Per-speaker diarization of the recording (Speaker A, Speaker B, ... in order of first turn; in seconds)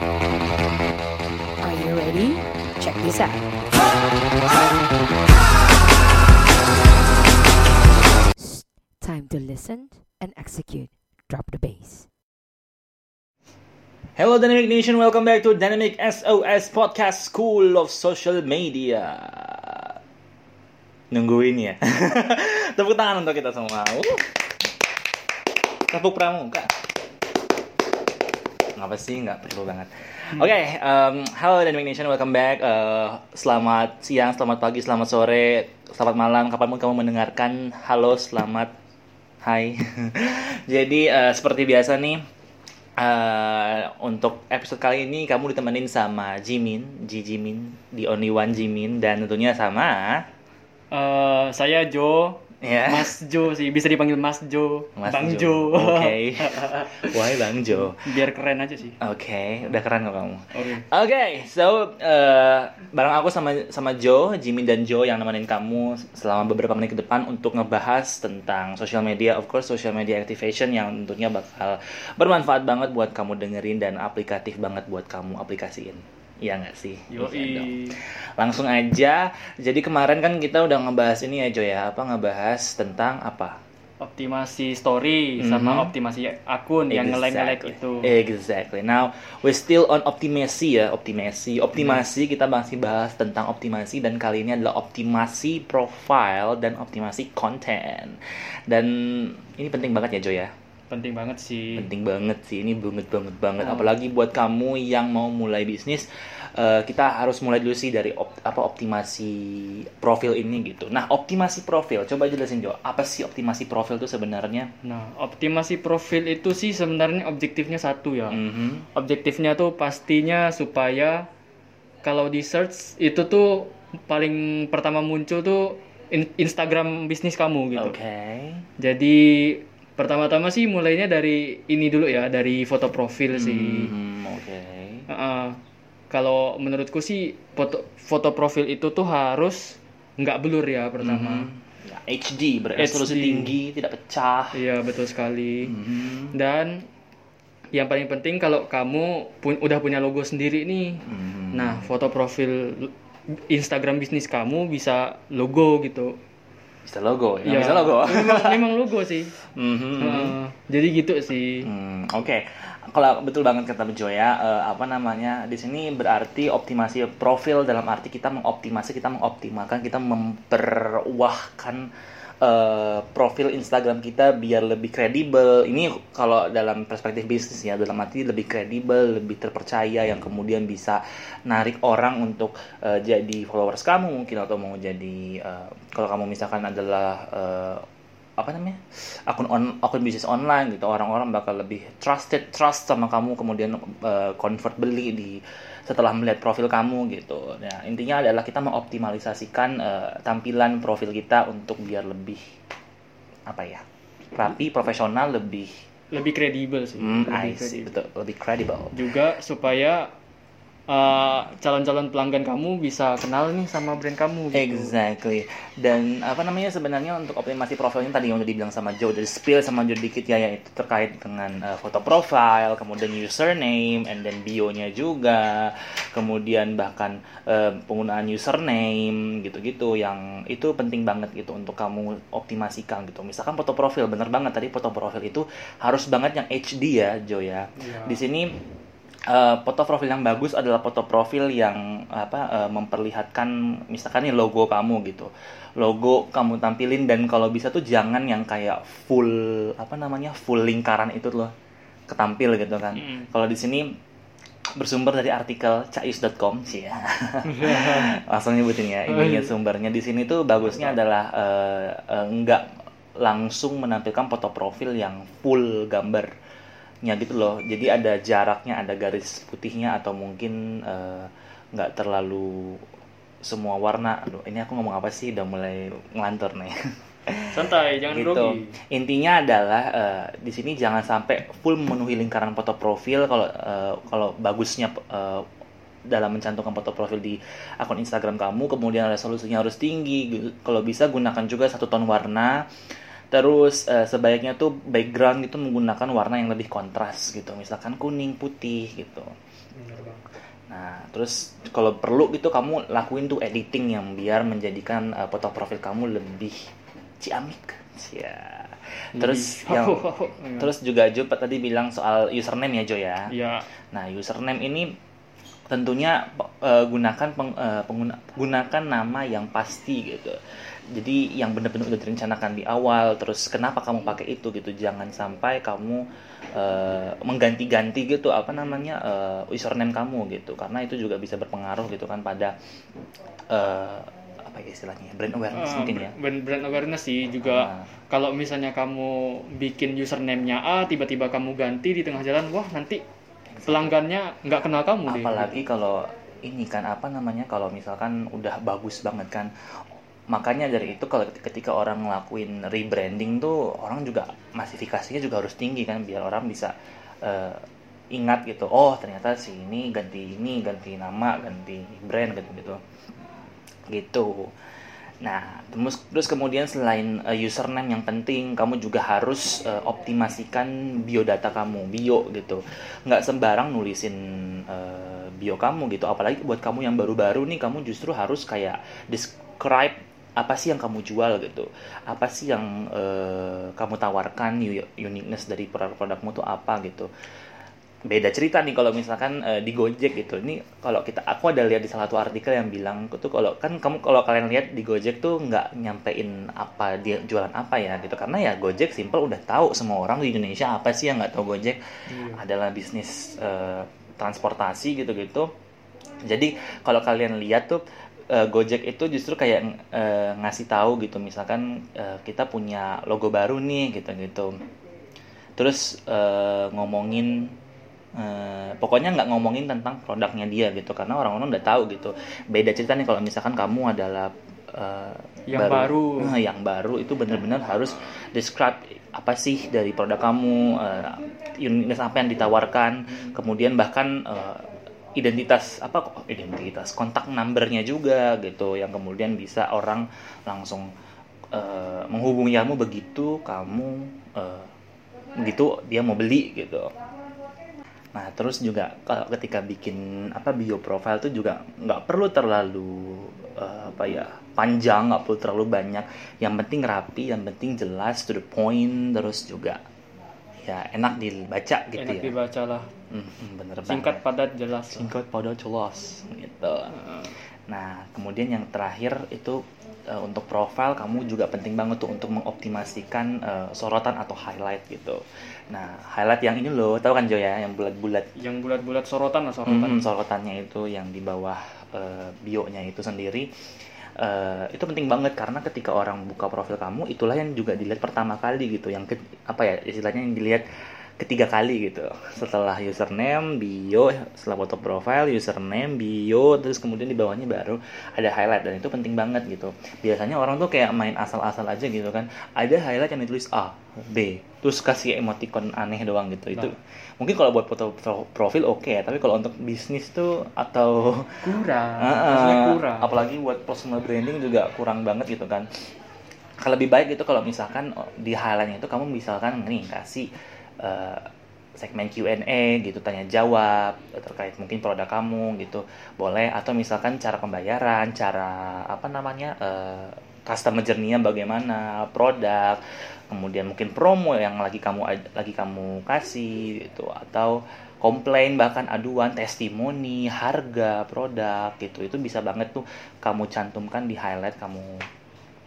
Speaker A: 1.6-3.5, 8.4-12.1
Speaker B: 14.2-20.0, 21.1-24.2, 25.9-26.7, 28.8-38.7, 39.4-42.2, 43.0-50.2, 52.6-53.1, 55.0-58.0, 59.0-83.6, 85.4-85.9, 86.9-100.5, 101.7-114.7, 118.3-118.9, 127.8-128.7, 133.3-135.1, 141.0-144.6, 145.6-146.3, 151.1-151.8, 156.8-158.7, 159.4-160.3, 161.6-171.9, 172.4-187.8, 188.4-202.4, 203.5-205.8, 207.0-209.0, 214.5-238.5, 239.3-251.5, 252.1-253.9, 254.8-262.6, 263.2-266.3, 267.0-272.8, 273.4-276.7, 277.3-277.6, 278.1-285.4, 286.1-292.6, 293.3-299.3, 300.7-306.6, 307.2-313.3, 313.9-314.9, 315.7-320.4, 320.9-326.0, 326.5-332.5, 333.5-336.1, 337.4-337.9, 343.5-343.9, 345.1-349.5, 350.3-357.6, 358.1-362.8, 363.9-364.5, 365.2-387.1, 388.1-405.4, 406.3-414.5, 415.6-417.4, 418.2-440.9, 441.5-444.7, 445.4-446.9, 448.1-459.8, 460.6-462.3, 463.1-464.2, 464.9-466.9, 467.7-478.3, 479.6-483.5, 484.2-490.6, 491.2-511.4, 512.0-515.7, 516.6-520.3, 520.8-521.2, 521.8-545.0
Speaker C: 50.9-57.1, 57.9-59.0, 60.5-60.8, 77.1-78.0, 84.0-88.1, 100.9-101.9, 103.6-103.9, 114.8-118.4, 118.9-121.3, 122.0-128.0, 128.8-133.9, 135.1-135.6, 136.1-141.5, 142.8-143.5, 144.5-145.7, 146.3-146.9, 147.7-152.9, 153.5-156.2, 157.4-159.3, 160.0-161.7, 206.1-207.9, 208.9-210.1, 210.9-214.9, 237.8-238.2, 253.0-253.3, 257.5-258.1, 259.1-259.5, 277.5-278.7, 299.8-300.2, 309.1-310.7, 313.3-313.6, 335.5-343.0, 343.7-345.6, 402.1-402.4, 425.5-426.4, 462.0-462.9, 463.9-465.1, 466.9-467.3, 478.4-480.1, 511.4-513.1